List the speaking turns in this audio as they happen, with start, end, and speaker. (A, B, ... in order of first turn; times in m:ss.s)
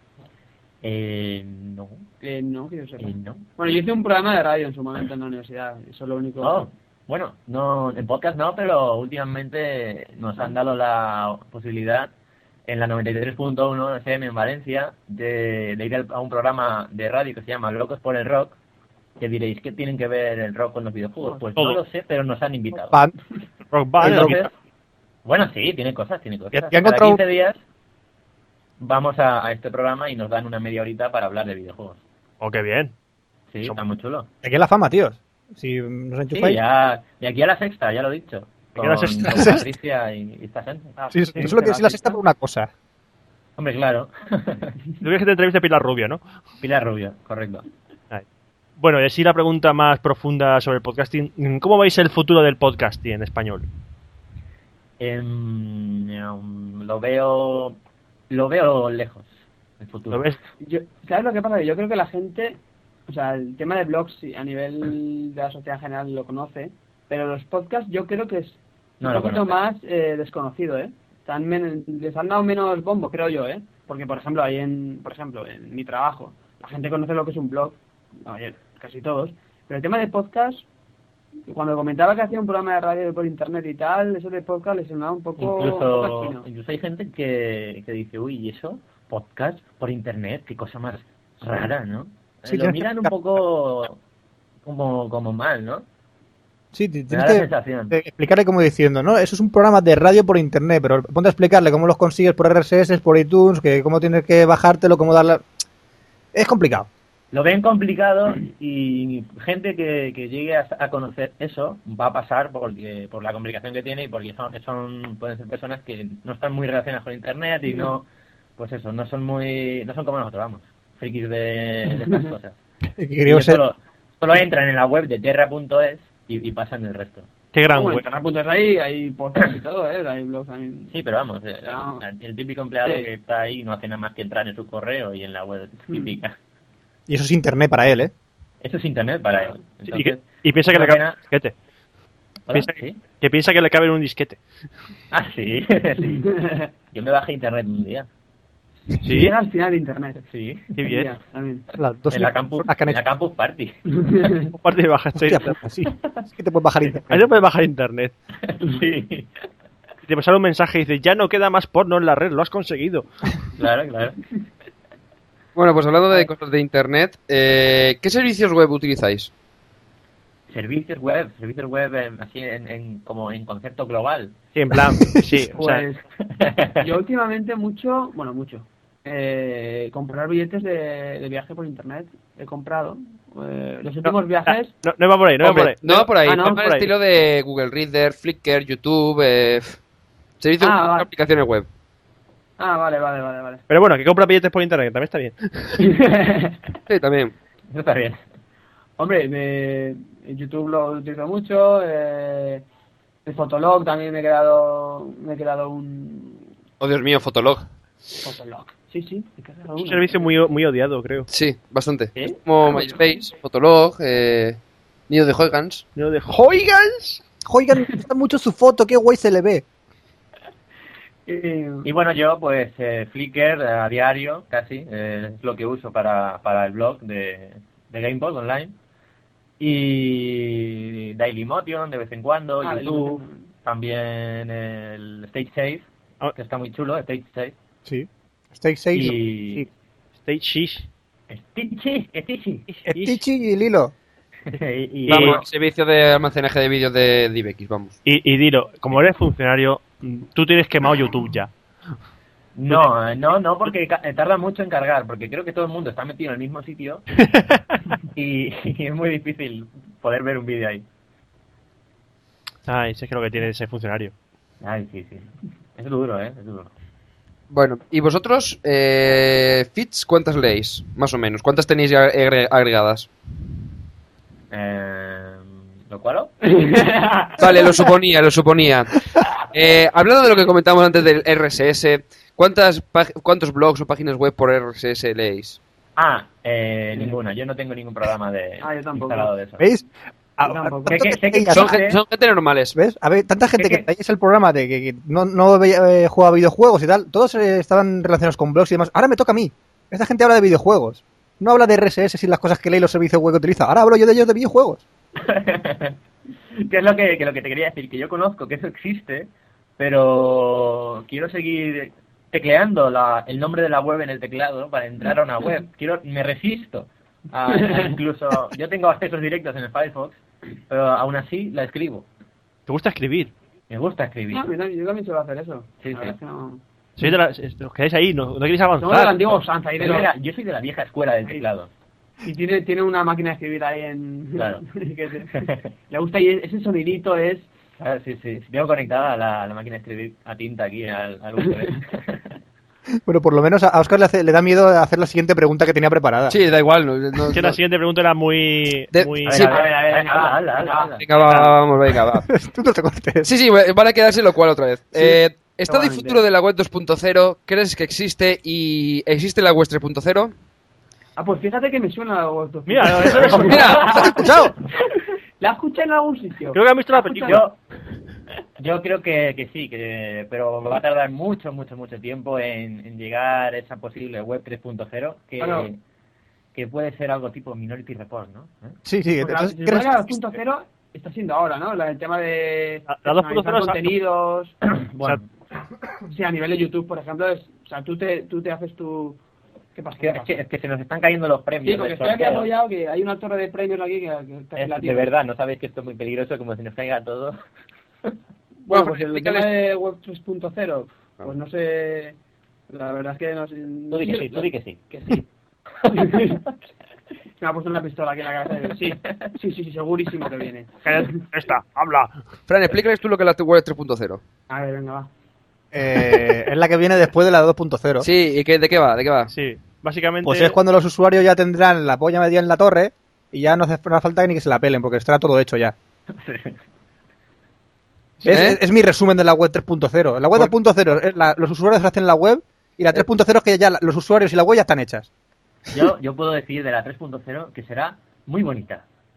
0:00.8-0:02.0 A
0:02.2-0:06.7 B
0:03.0-0:03.4 A
0:06.4-0:12.1 A
0:12.7-0:18.6 A
0:19.2-0:23.0 A
0:23.7-0:24.5 C
0:24.0-0:24.4 D
0:24.0-0:24.5 A
0:25.2-0:27.6 A
0:26.5-0:27.2 D
0:28.8-0:32.0 A
0:32.4-0:32.9 C
0:33.5-0:34.3 A
0:34.4-0:36.6 D
0:36.3-0:41.0 A
0:38.8-0:39.6 C
0:41.0-0:42.2 B
0:41.1-0:42.7 D
0:43.6-0:44.8 A
0:45.0-0:46.2 C
0:46.6-0:47.6 A
0:48.8-0:53.7 C
0:55.0-0:57.8 A
0:58.3-0:59.3 A
0:59.8-1:00.2 A
1:00.1-1:00.4 C
1:00.6-1:20.7 B
1:09.0-1:09.6 A
1:21.5-1:26.4 B
1:25.4-1:34.0 A
1:32.5-1:33.1 D
1:34.6-1:35.8 A
1:36.7-1:45.4 D
1:37.1-1:38.0 A
1:46.3-1:46.9 D
1:47.3-1:58.1 A
1:58.6-2:02.6 A
2:03.0-2:03.6 D
2:03.2-2:07.3 A
2:07.5-2:08.0 C
2:07.7-2:11.0 B
2:10.9-2:16.4 A
2:11.6-2:12.0 B
2:17.1-2:18.1 D
2:18.6-2:21.2 A
2:19.9-2:21.5 C
2:22.5-2:23.0 A
2:22.5-2:24.4 C
2:25.1-2:26.3 A
2:26.2-2:26.7 B
2:26.9-2:28.1 A
2:29.0-2:29.3 C
2:29.0-2:30.2 B
2:30.3-2:30.7 A
2:30.8-2:31.1 C
2:30.8-2:31.7 B
2:31.8-2:33.0 D
2:32.1-2:33.8 A
2:34.0-2:34.5 B
2:34.5-2:35.6 C
2:35.1-2:37.0 D
2:37.1-2:38.1 C
2:38.4-2:39.3 A
2:40.1-2:43.1 C
2:43.6-2:44.2 A
2:45.6-2:49.3 E
2:50.5-2:54.4 A
2:54.6-2:55.8 C
2:55.6-2:56.8 A
2:55.6-2:56.0 B
2:56.8-3:04.7 B
3:04.0-3:06.9 C
3:05.4-3:09.8 E
3:06.2-3:06.6 B
3:10.4-3:11.7 E
3:10.6-3:11.1 B
3:12.6-3:13.6 B
3:13.7-3:15.8 C
3:15.8-3:16.6 B
3:16.9-3:17.3 E
3:17.7-3:18.2 A
3:19.0-3:22.6 B
3:23.3-3:26.4 B
3:26.8-3:27.6 E
3:28.2-3:30.4 B
3:29.8-3:31.3 C
3:31.3-3:35.8 E
3:32.2-3:33.1 B
3:36.0-3:37.2 C
3:37.5-3:39.6 D
3:41.3-3:41.9 B
3:41.8-3:48.8 A
3:49.6-3:57.6 A
3:52.6-3:53.4 B
3:57.8-3:59.7 D
3:58.9-3:59.7 A
4:00.2-4:00.9 C
4:01.3-4:02.7 A
4:02.7-4:03.2 C
4:02.9-4:03.9 D
4:04.5-4:05.4 A
4:05.1-4:05.4 C
4:05.1-4:08.0 E
4:08.0-4:11.5 C
4:12.6-4:17.0 A
4:17.3-4:18.0 C
4:18.1-4:20.9 A
4:22.7-4:24.1 C
4:24.6-4:26.7 A
4:27.5-4:33.1 E
4:34.5-4:36.6 A
4:36.5-4:37.5 B
4:37.4-4:45.6 E
4:46.0-4:49.6 A
4:48.6-4:49.3 B
4:49.6-4:51.8 D
4:50.4-4:51.0 B
4:50.9-4:52.0 A
4:51.5-4:52.7 E
4:52.7-5:04.8 D
4:53.6-4:53.8 A
5:05.2-5:06.0 A
5:06.5-5:22.1 A
5:22.7-5:23.3 C
5:23.7-5:24.5 A
5:24.3-5:26.6 B
5:25.8-5:26.2 A
5:27.0-5:29.2 C
5:28.8-5:30.1 B
5:29.8-5:31.7 A
5:32.2-5:37.5 B
5:34.4-5:34.6 A
5:35.3-5:35.7 A
5:37.8-5:42.4 A
5:43.1-5:46.4 D
5:46.3-5:47.6 E
5:47.3-5:49.5 C
5:48.9-5:49.6 E
5:49.2-5:51.0 A
5:49.4-5:50.9 B
5:51.0-5:52.3 E
5:51.3-5:51.6 C
5:52.2-5:53.3 D
5:53.2-6:00.3 E
5:55.6-5:56.2 B
6:01.2-6:04.3 B
6:02.7-6:03.8 C
6:03.4-6:04.2 E
6:04.2-6:04.5 D
6:05.4-6:07.4 B
6:06.5-6:07.5 C
6:07.3-6:07.6 A
6:08.6-6:15.8 A
6:15.4-6:15.7 B
6:16.5-6:18.8 A
6:18.8-6:20.1 D
6:19.2-6:24.6 B
6:22.9-6:23.8 C
6:24.7-6:25.3 A
6:26.1-6:29.2 B
6:29.8-6:30.3 B
6:30.0-6:32.5 A
6:31.6-6:35.1 B
6:34.6-6:37.4 A
6:38.6-6:42.2 B
6:38.7-6:39.5 E
6:42.7-6:45.2 B
6:43.9-6:44.8 A
6:45.9-6:46.4 B
6:45.9-6:46.2 A
6:47.4-6:51.2 B
6:50.8-6:52.2 C
6:52.5-6:54.2 E
6:54.5-6:55.1 B
6:55.7-6:58.1 D
6:58.0-6:59.3 E
6:59.3-7:00.6 C
7:00.2-7:05.8 D
7:06.1-7:06.6 A
7:08.2-7:08.5 C
7:08.3-7:15.1 D
7:08.3-7:08.6 E
7:15.7-7:18.8 A